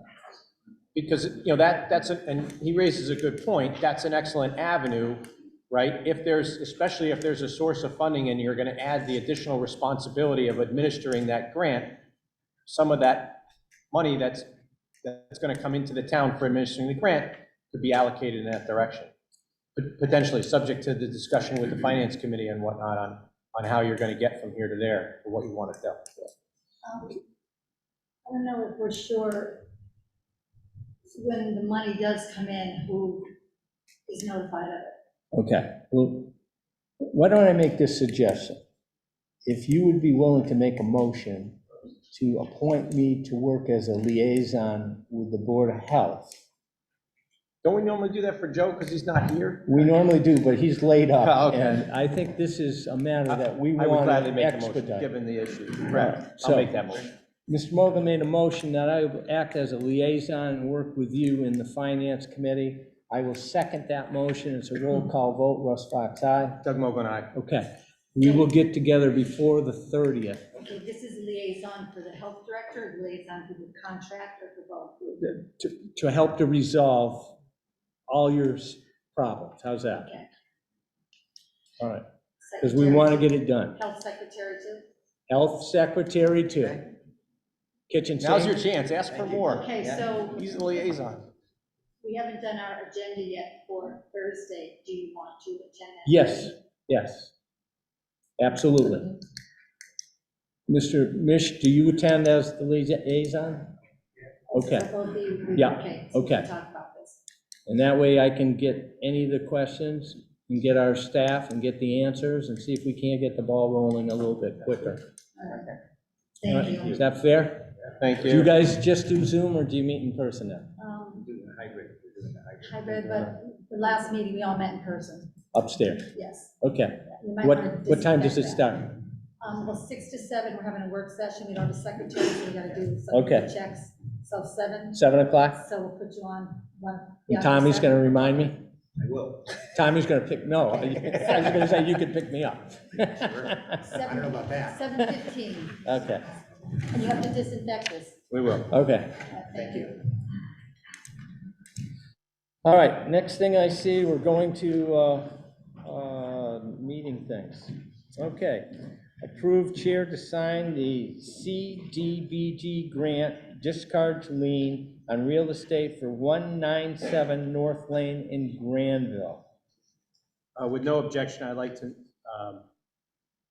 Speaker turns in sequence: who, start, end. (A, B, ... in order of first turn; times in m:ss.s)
0:00.9-0:11.9 A
0:12.6-0:13.4 A
0:13.9-0:14.5 A
0:15.0-0:19.1 A
0:19.8-0:26.3 A
0:26.8-0:27.2 B
0:28.2-0:29.7 B
0:31.1-0:33.3 B
0:34.1-0:35.0 B
0:35.3-0:36.3 C
0:37.0-0:38.6 C
0:39.4-0:41.6 C
0:42.1-0:46.4 C
0:47.6-0:49.8 A
0:49.7-0:55.1 C
0:51.2-0:51.8 A
0:53.3-0:57.1 A
0:56.0-0:56.7 C
0:57.5-1:06.6 C
1:06.6-1:07.3 A
1:07.3-1:10.4 C
1:10.6-1:15.2 B
1:15.2-1:17.4 C
1:18.1-1:20.1 C
1:19.9-1:20.3 B
1:21.8-1:22.0 C
1:22.4-1:23.2 B
1:22.6-1:23.8 C
1:23.8-1:24.9 B
1:25.3-1:26.8 C
1:27.9-1:28.6 C
1:28.2-1:31.2 A
1:29.4-1:30.7 B
1:32.0-1:36.5 B
1:36.1-1:37.3 C
1:38.4-1:39.2 C
1:40.7-1:43.7 C
1:44.5-1:47.2 B
1:44.5-1:44.9 C
1:45.5-1:46.4 C
1:47.7-1:55.0 C
1:55.4-1:55.7 B
1:56.4-1:57.0 B
1:56.8-1:57.7 C
1:58.0-1:58.5 A
1:58.2-2:00.7 C
2:00.8-2:01.3 B
2:01.3-2:02.7 D
2:02.6-2:05.3 B
2:05.5-2:06.1 C
2:06.1-2:06.5 B
2:06.6-2:08.9 C
2:07.1-2:08.7 B
2:09.4-2:18.0 B
2:13.1-2:13.5 C
2:14.9-2:15.6 C
2:17.3-2:18.6 C
2:19.0-2:19.5 D
2:19.7-2:23.8 C
2:23.8-2:25.8 B
2:25.8-2:26.2 C
2:26.8-2:28.2 B
2:28.3-2:28.7 A
2:28.7-2:29.2 C
2:29.2-2:30.0 B
2:32.6-2:35.3 C
2:35.8-2:38.7 C
2:39.2-2:49.4 C
2:50.6-2:52.6 A